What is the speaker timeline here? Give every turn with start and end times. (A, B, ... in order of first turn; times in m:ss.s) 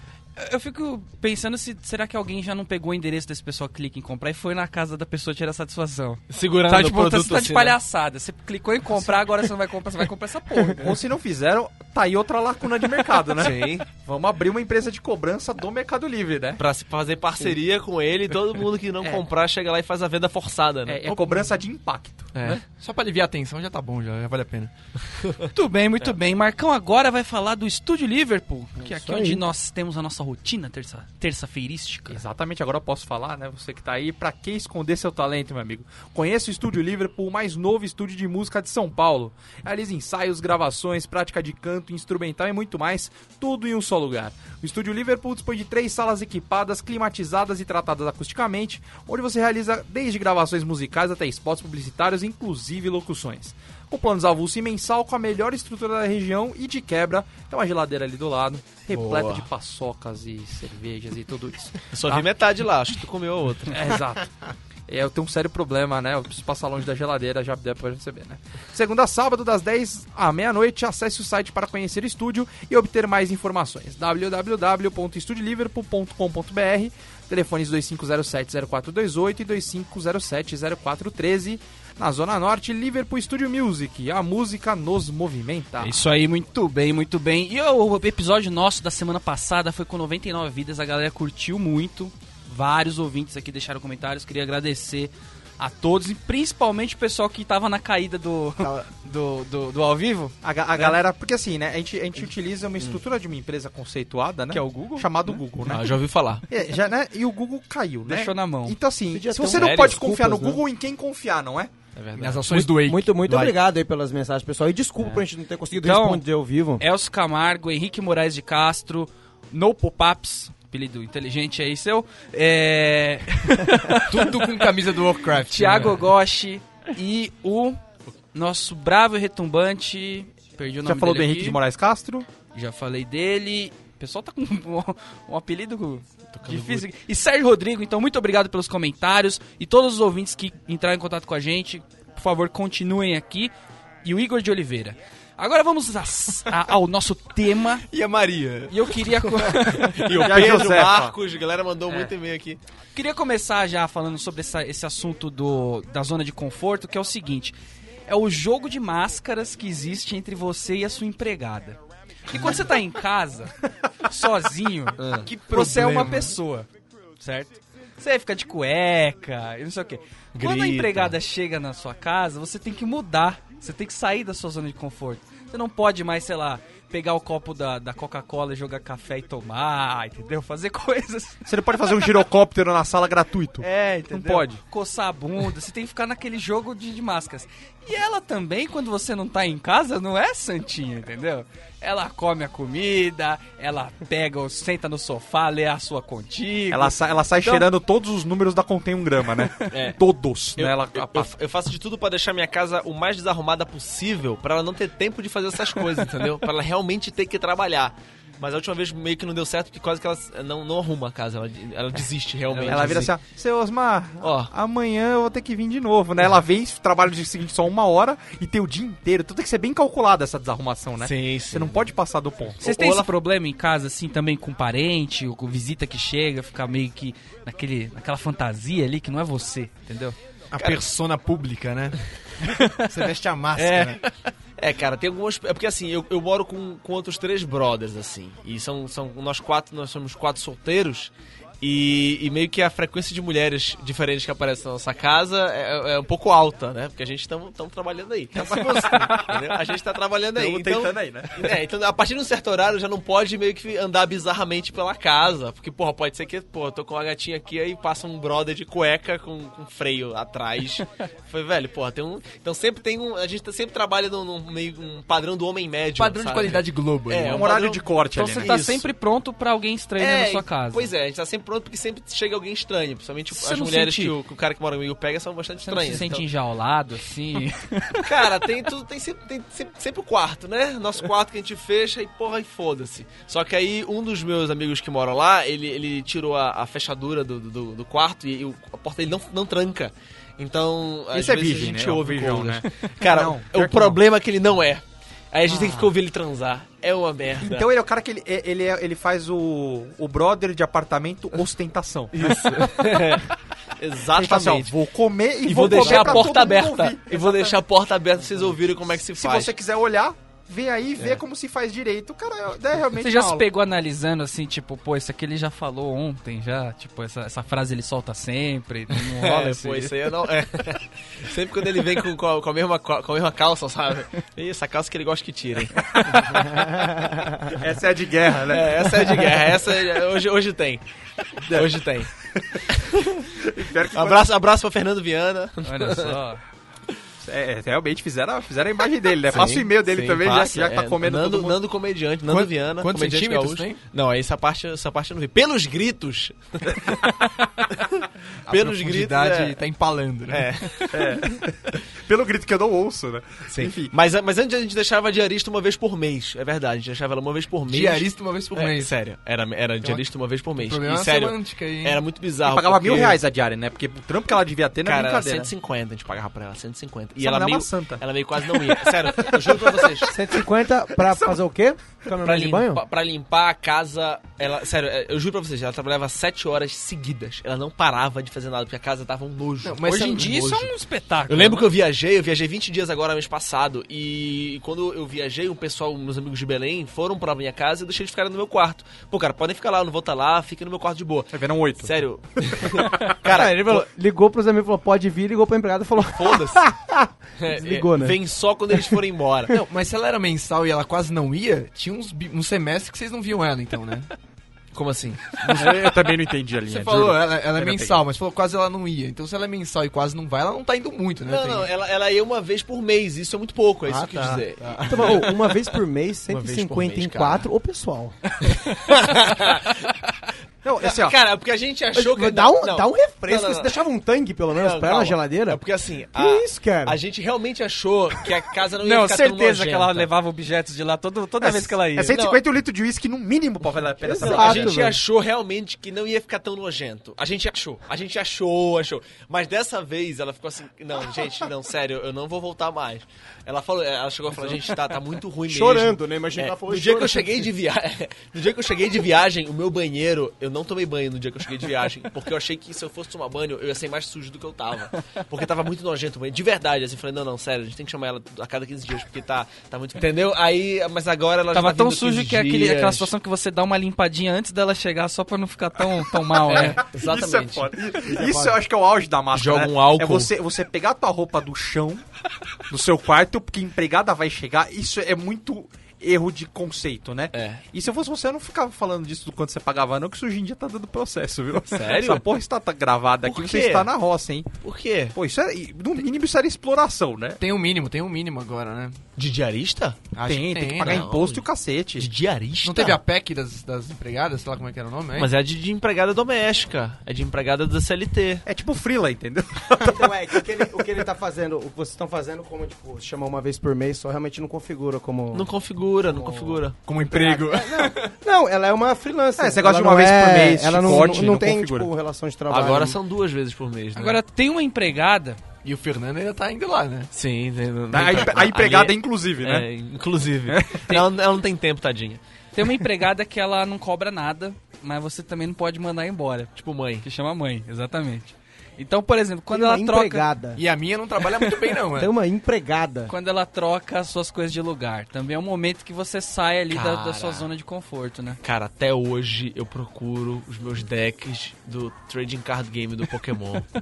0:00.4-0:11.0 A
0:06.3-0:07.8 B
0:10.7-0:16.6 C
0:13.3-0:13.8 B
0:16.6-0:21.2 B
0:20.9-0:22.6 C
0:22.3-0:22.6 B
0:22.6-0:24.7 D
0:25.5-0:32.2 A
0:28.8-0:29.4 E
0:32.1-1:02.3 C
0:58.9-0:59.5 B
1:01.9-1:04.0 B
1:03.7-1:04.3 C
1:04.9-1:26.0 C
1:25.8-1:41.0 A
1:38.6-1:38.9 D
1:40.4-1:51.7 C
1:44.5-1:45.1 A
1:45.7-1:46.4 B
1:48.0-1:48.8 A
1:49.1-1:50.6 E
1:49.5-1:50.0 B
1:51.9-1:52.7 B
1:52.1-1:53.5 D
1:52.7-1:56.8 E
1:55.8-1:56.2 A
1:56.8-2:04.5 A
2:04.0-2:06.1 D
2:05.5-2:07.8 A
2:08.3-2:11.6 A
2:10.8-2:12.3 C
2:12.5-2:23.5 A
2:16.3-2:16.8 B
2:24.0-2:27.8 A
2:27.9-2:30.0 D
2:28.7-2:30.1 A
2:29.9-2:32.6 B
2:30.1-2:31.1 C
2:32.9-2:37.5 A
2:38.1-2:43.5 A
2:44.0-2:46.7 A
2:45.0-2:45.3 B
2:45.5-2:46.3 D
2:47.2-3:02.2 A
2:50.4-2:51.1 B
3:01.4-3:04.6 C
3:03.6-3:17.6 A
3:16.7-3:21.3 C
3:19.7-3:20.0 B
3:20.6-3:33.2 B
3:32.5-3:42.6 C
3:34.2-3:34.5 B
3:41.0-3:41.9 B
3:42.6-3:43.1 B
3:42.6-3:50.1 A
3:50.5-3:52.0 D
3:50.6-3:50.8 B
3:52.4-3:53.0 A
3:52.8-3:54.0 D
3:53.6-3:53.9 B
3:54.6-4:28.9 B
4:08.4-4:09.4 C
4:10.3-4:11.5 C
4:26.0-4:27.5 D
4:27.2-4:28.6 C
4:28.1-4:30.9 A
4:30.0-4:36.2 B
4:33.3-4:34.1 A
4:35.6-4:38.2 A
4:38.0-4:57.7 B
4:51.1-4:54.0 C
4:55.5-4:55.9 C
4:57.4-5:02.4 C
5:02.1-5:04.7 B
5:02.4-5:02.6 D
5:04.1-5:07.6 C
5:05.4-5:09.5 B
5:05.7-5:06.2 A
5:09.2-5:13.4 C
5:13.0-5:19.9 A
5:18.9-5:27.0 B
5:26.0-5:26.4 C
5:27.4-5:29.4 C
5:28.4-5:30.8 B
5:31.4-5:33.3 B
5:33.3-5:34.2 C
5:33.8-5:36.2 B
5:35.6-5:36.4 A
5:37.2-5:41.6 C
5:39.3-5:49.6 B
5:42.3-5:43.8 D
5:48.5-5:50.9 D
5:50.3-5:51.3 B
5:50.9-5:53.9 C
5:53.5-6:03.2 B
5:57.7-5:58.9 D
6:00.6-6:02.0 D
6:02.4-6:05.5 C
6:04.8-6:10.1 B
6:07.2-6:10.2 C
6:10.1-6:12.8 E
6:11.0-6:11.4 C
6:12.2-6:20.2 B
6:19.6-6:20.7 D
6:19.8-6:21.6 A
6:21.3-6:33.9 B
6:31.3-6:31.9 C
6:32.6-6:33.1 C
6:33.2-6:38.2 E
6:36.0-6:36.7 B
6:37.4-6:39.6 B
6:39.5-6:44.1 D
6:44.7-6:46.0 B
6:45.4-6:45.9 D
6:45.5-6:48.0 C
6:46.6-6:51.7 D
6:51.2-6:55.7 B
6:53.9-6:58.2 E
6:54.1-6:54.4 C
6:54.6-6:55.2 D
6:56.3-6:57.5 B
6:58.4-7:00.0 B
7:00.6-7:01.2 C
7:00.8-7:03.8 B
7:01.9-7:05.6 E
7:04.5-7:10.1 B
7:06.1-7:07.0 E
7:08.8-7:12.2 A
7:11.4-7:14.9 C
7:12.1-7:12.4 B
7:14.0-7:15.0 E
7:14.1-7:43.1 B
7:25.4-7:27.4 E
7:41.5-7:46.8 A
7:46.4-7:52.0 C
7:46.5-7:47.7 B
7:48.1-7:48.6 E
7:49.3-7:50.3 B
7:52.7-8:04.5 C
7:57.3-7:57.6 B
8:01.6-8:02.2 B
8:03.2-8:03.9 B
8:04.6-8:05.2 B
8:05.1-8:07.4 C
8:07.4-8:09.0 D
8:09.2-8:10.1 B
8:10.1-8:11.1 D
8:10.2-8:12.1 C
8:10.8-8:11.4 B
8:12.0-8:13.0 B
8:12.6-8:15.3 D
8:15.2-8:18.4 B
8:18.4-8:20.4 C
8:19.8-8:25.5 E
8:25.3-8:26.8 B
8:26.8-8:28.1 D
8:27.0-8:33.0 E
8:29.4-8:31.9 C
8:32.5-8:34.2 B
8:34.0-8:35.4 A
8:35.6-8:37.1 D
8:37.1-8:42.2 B
8:37.9-8:39.7 C
8:40.5-8:41.0 C
8:42.5-8:50.3 A
8:46.6-8:47.0 B
8:49.5-8:50.6 E
8:50.5-8:52.1 D
8:51.4-8:51.7 A
8:52.0-8:53.1 E
8:53.1-8:58.4 A
8:56.7-8:57.5 B
8:58.4-9:03.7 B